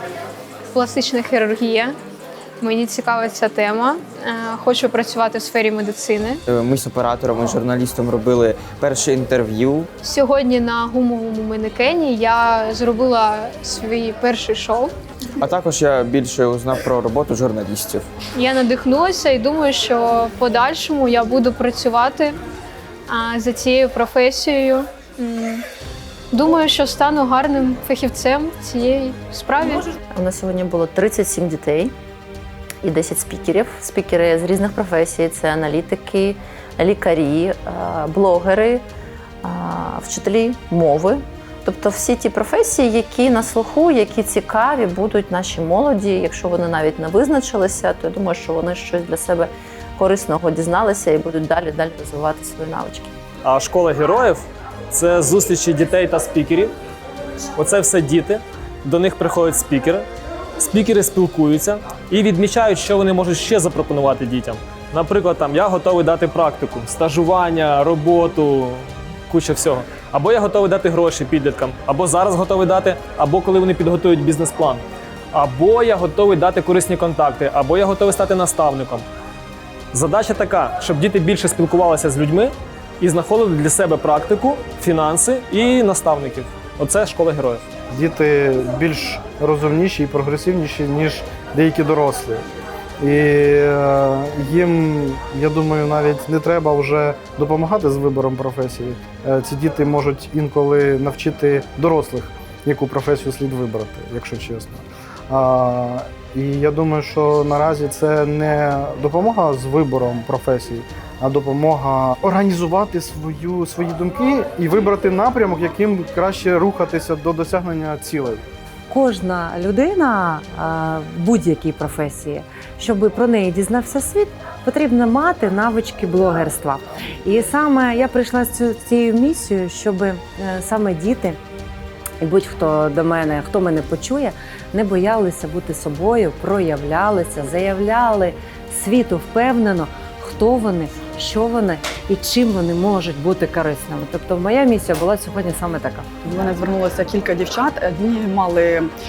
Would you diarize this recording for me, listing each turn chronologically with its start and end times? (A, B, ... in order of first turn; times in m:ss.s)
0:00.7-0:01.9 A
0:02.6-0:06.4 A
0:06.4-0:09.9 B
0:10.0-0:14.9 A
0:15.4-0:18.1 B
0:18.4-0:22.3 A
0:23.1-0:25.6 A
0:26.3-0:29.8 A
0:30.1-0:31.9 C
0:32.8-0:38.8 C
0:39.4-0:53.2 C
0:53.4-0:56.7 D
0:57.6-1:00.1 D
1:00.6-1:19.1 D
1:19.9-1:27.6 D
1:27.9-1:32.4 E
1:33.0-1:58.4 E
1:58.9-2:11.4 F
2:12.2-2:26.1 F
2:26.2-2:28.9 G